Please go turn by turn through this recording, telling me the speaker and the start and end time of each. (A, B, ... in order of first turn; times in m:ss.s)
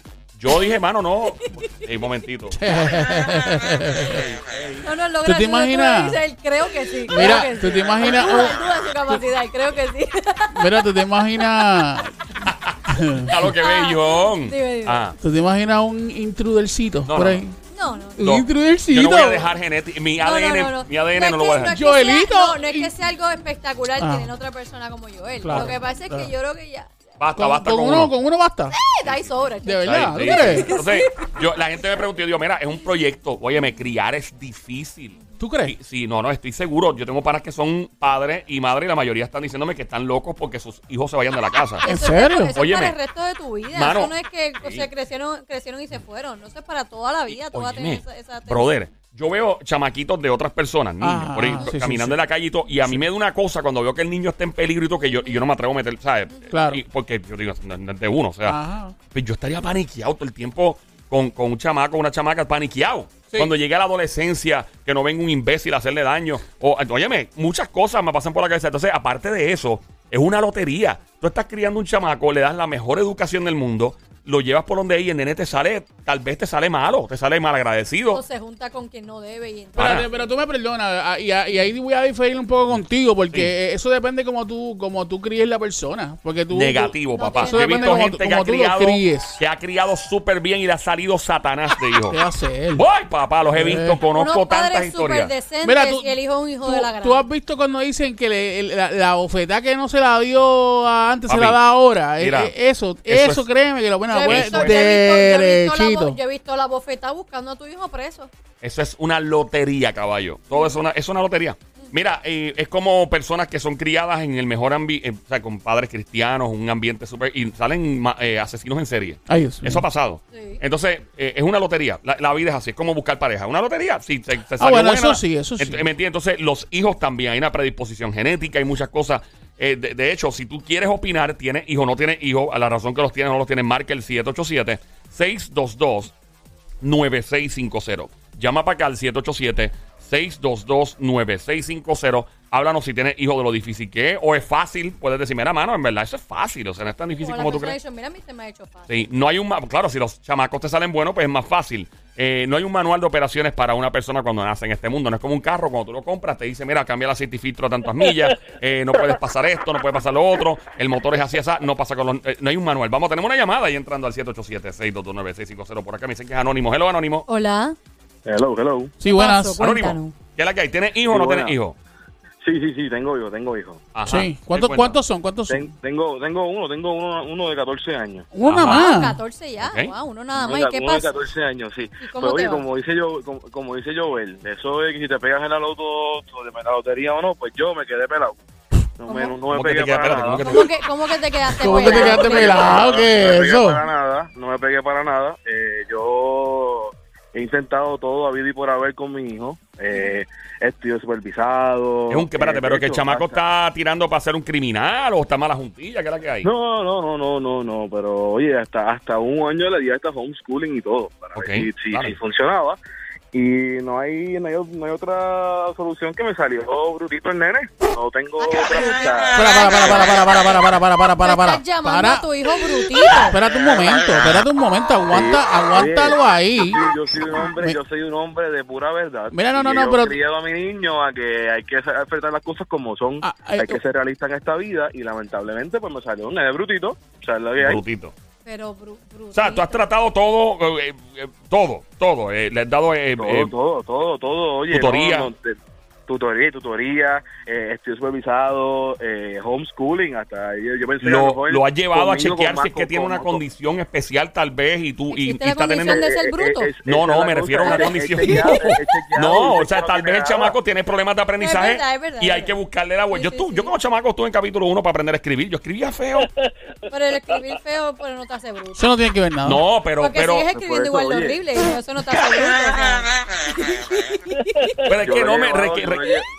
0:00.4-0:02.6 A
0:02.5-0:04.2 B
0:03.1-0:03.5 C
0:04.8-0:11.8 C
0:05.2-0:06.2 B
0:07.1-0:08.6 B
0:10.6-0:12.2 B
0:12.4-0:15.2 A
0:12.9-0:13.4 B
0:13.5-0:15.0 C
0:15.2-0:17.6 B
0:17.1-0:17.4 A
0:17.7-0:18.2 C
0:18.2-0:19.5 B
0:18.2-0:21.8 A
0:20.2-0:26.9 C
0:21.7-0:22.9 B
0:24.0-0:24.3 B
0:25.4-0:26.3 B
0:27.2-0:28.1 A
0:27.4-0:28.8 B
0:28.7-0:31.4 C
0:29.6-0:30.7 B
0:29.8-0:41.9 A
0:35.4-0:35.8 B
0:41.8-0:48.7 C
0:41.9-0:42.5 B
0:42.6-0:43.0 A
0:43.7-0:44.9 A
0:47.3-0:58.6 A
0:51.0-0:52.2 B
0:55.1-0:55.4 C
0:56.5-0:56.8 B
0:58.5-0:59.0 B
0:59.1-1:18.2 A
1:18.1-1:20.0 C
1:19.8-1:20.1 A
1:19.8-1:29.4 B
1:26.5-1:32.2 A
1:27.2-1:28.0 C
1:32.1-1:32.9 B
1:32.7-1:35.3 A
1:33.5-1:34.0 B
1:34.2-1:37.2 C
1:35.6-1:46.2 B
1:41.3-1:41.6 A
1:42.2-1:42.5 A
1:43.1-1:43.5 A
1:44.1-1:48.3 C
1:44.2-1:44.8 A
1:48.6-2:16.1 A
1:59.3-1:59.8 B
2:00.3-2:00.6 C
2:04.6-2:05.8 B
2:16.8-2:27.8 A
2:27.2-2:28.9 C
2:28.9-2:47.3 A
2:47.3-2:47.8 C
2:48.3-2:49.0 D
2:49.0-2:49.6 B
2:49.1-2:50.2 C
2:49.6-2:51.8 A
2:51.1-2:51.6 D
2:52.4-2:53.8 D
2:53.9-2:55.0 A
2:54.1-2:55.7 B
2:55.5-2:58.3 D
2:58.3-2:59.2 B
2:58.5-2:58.8 A
2:58.6-3:01.2 C
2:59.6-2:59.9 A
3:00.4-3:08.4 D
3:02.0-3:02.6 C
3:09.0-3:10.7 D
3:09.1-3:09.3 C
3:09.5-3:10.7 A
3:10.4-3:12.8 C
3:11.6-3:13.8 B
3:11.6-3:23.4 D
3:22.1-3:26.5 A
3:26.4-3:32.8 D
3:31.4-3:32.2 A
3:33.3-3:40.2 D
3:38.4-3:40.2 C
3:39.4-3:42.2 B
3:41.2-3:43.4 C
3:42.9-3:46.8 B
3:43.6-3:44.0 D
3:45.1-3:57.8 D
3:49.3-3:50.2 B
3:53.2-3:53.8 B
3:57.6-3:58.1 A
3:58.4-3:59.8 C
3:59.3-4:03.5 A
4:03.2-4:13.4 D
4:04.7-4:05.3 A
4:11.0-4:16.1 A
4:15.1-4:16.7 C
4:15.8-4:20.6 D
4:16.9-4:26.3 A
4:17.6-4:18.7 C
4:21.4-4:22.5 C
4:23.1-4:23.7 C
4:26.9-4:28.9 C
4:28.8-4:29.6 B
4:29.4-4:30.5 A
4:30.0-4:34.7 C
4:30.5-4:31.4 D
4:34.8-4:36.1 A
4:35.0-4:36.2 D